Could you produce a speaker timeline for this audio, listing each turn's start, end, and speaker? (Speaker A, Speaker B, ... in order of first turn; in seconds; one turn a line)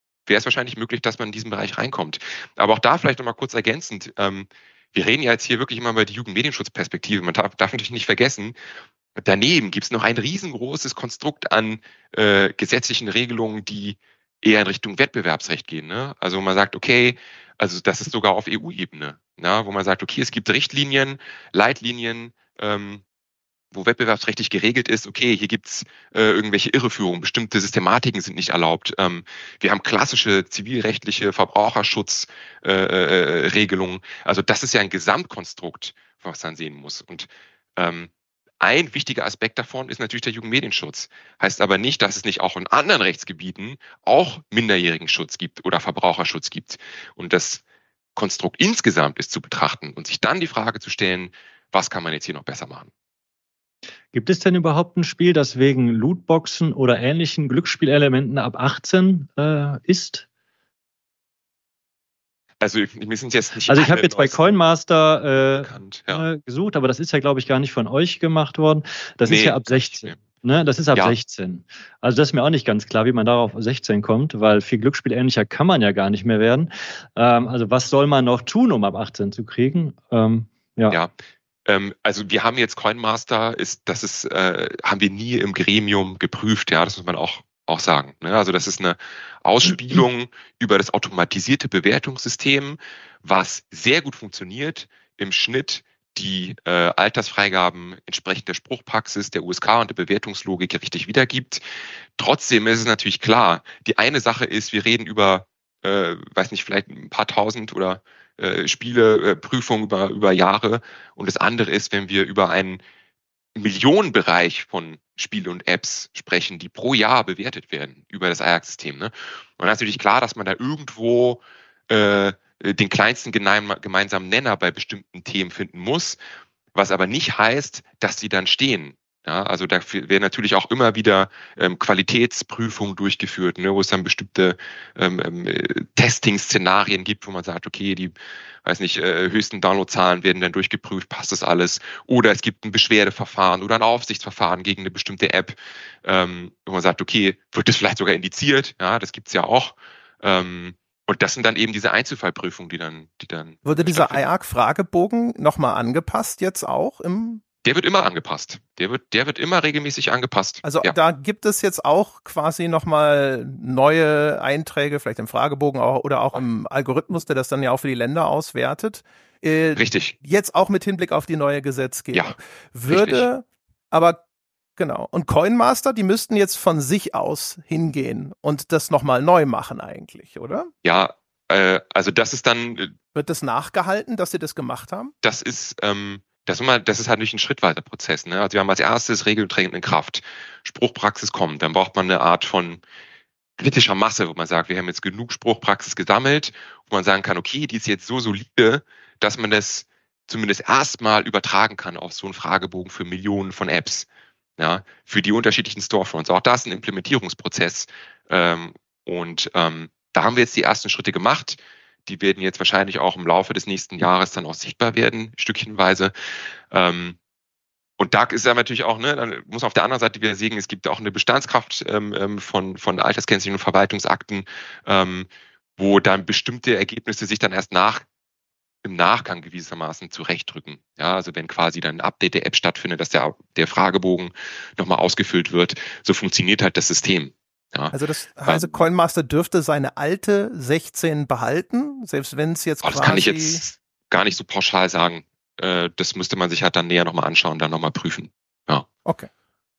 Speaker A: 0.3-8.6
Speaker A: 9.2-23.0
Speaker A: 23.7-38.1
Speaker A: 38.6-47.6
Speaker A: 48.1-52.9
Speaker B: 54.1-60.2
Speaker A: 62.6-64.5
Speaker B: 63.7-81.0
Speaker A: 65.6-66.2
Speaker A: 69.2-70.2
Speaker A: 81.7-101.6
Speaker A: 102.2-112.8
Speaker A: 113.5-126.2
Speaker A: 126.7-138.1
Speaker A: 138.6-154.2
Speaker C: 153.7-157.4
Speaker A: 157.6-160.9
Speaker C: 160.6-174.2
Speaker A: 169.8-170.1
Speaker A: 172.9-173.3
Speaker C: 174.8-180.7
Speaker A: 180.8-182.9
Speaker C: 183.1-185.1
Speaker A: 185.2-192.8
Speaker A: 193.6-204.1
Speaker A: 204.6-216.1
Speaker A: 216.7-217.2
Speaker A: 218.0-228.0
Speaker A: 228.8-237.9
Speaker C: 237.9-243.6
Speaker A: 238.5-238.8
Speaker A: 242.8-248.9